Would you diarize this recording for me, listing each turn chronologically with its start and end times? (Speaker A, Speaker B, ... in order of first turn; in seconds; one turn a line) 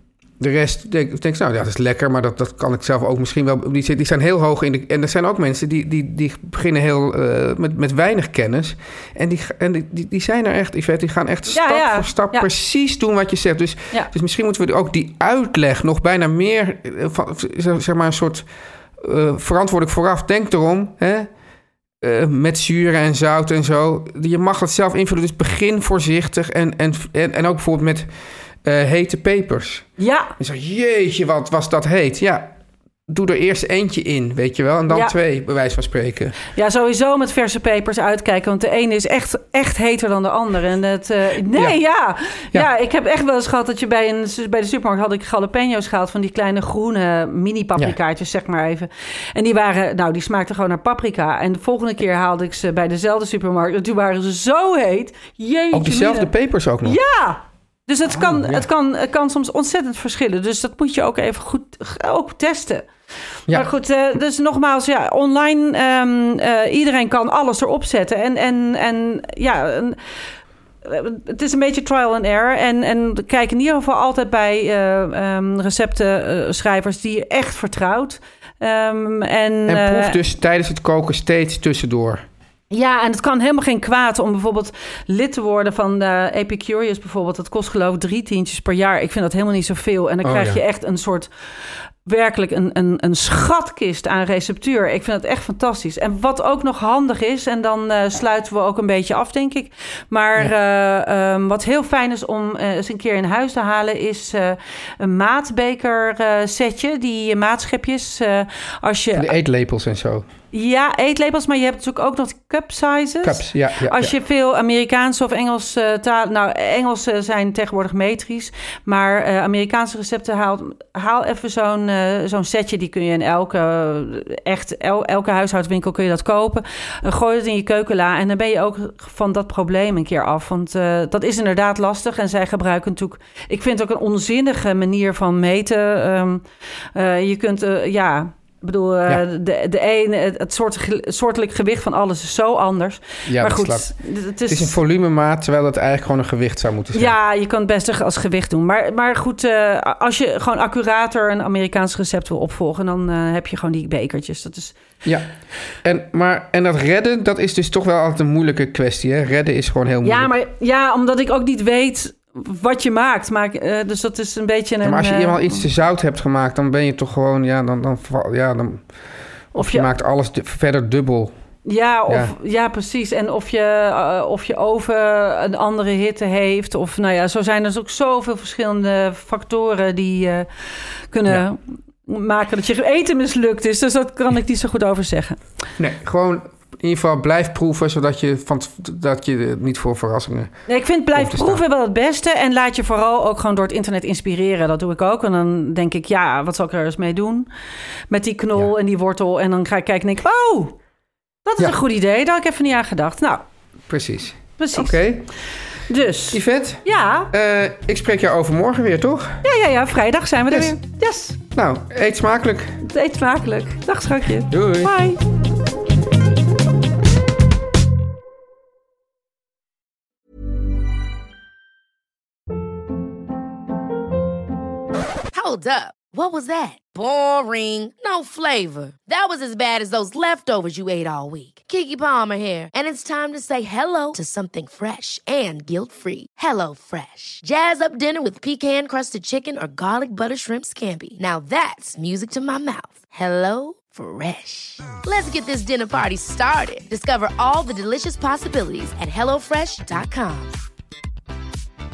Speaker A: 0.4-18.5
Speaker B: 11.5-12.5
Speaker A: 19.0-21.3
Speaker A: 22.0-28.1
Speaker A: 28.6-32.5
Speaker B: 30.0-30.3
Speaker A: 33.1-36.3
Speaker B: 36.5-56.3
Speaker A: 55.7-57.0
Speaker B: 56.8-62.9
Speaker A: 58.1-58.6
Speaker B: 63.5-70.0
Speaker B: 70.8-80.2
Speaker A: 79.7-82.2
Speaker B: 82.7-91.3
Speaker A: 90.2-90.6
Speaker B: 92.0-109.3
Speaker A: 109.1-110.2
Speaker B: 110.5-136.4
Speaker A: 113.2-114.1
Speaker B: 136.9-144.8
Speaker A: 143.2-143.9
Speaker A: 144.4-147.1
Speaker B: 146.9-154.8
Speaker A: 155.8-160.3
Speaker B: 160.0-165.6
Speaker A: 164.8-168.8
Speaker A: 169.5-171.3
Speaker B: 169.6-169.9
Speaker B: 171.7-180.5
Speaker A: 172.1-172.3
Speaker B: 181.1-185.4
Speaker A: 185.8-190.6
Speaker B: 190.7-197.5
Speaker A: 191.1-191.6
Speaker B: 198.1-200.8
Speaker B: 201.4-203.4
Speaker A: 203.9-205.3
Speaker B: 204.6-205.0
Speaker B: 205.9-207.3
Speaker A: 206.3-209.4
Speaker B: 209.4-211.4
Speaker A: 210.5-210.8
Speaker A: 211.5-212.8
Speaker B: 212.8-215.2
Speaker A: 214.5-214.9
Speaker C: 225.3-250.5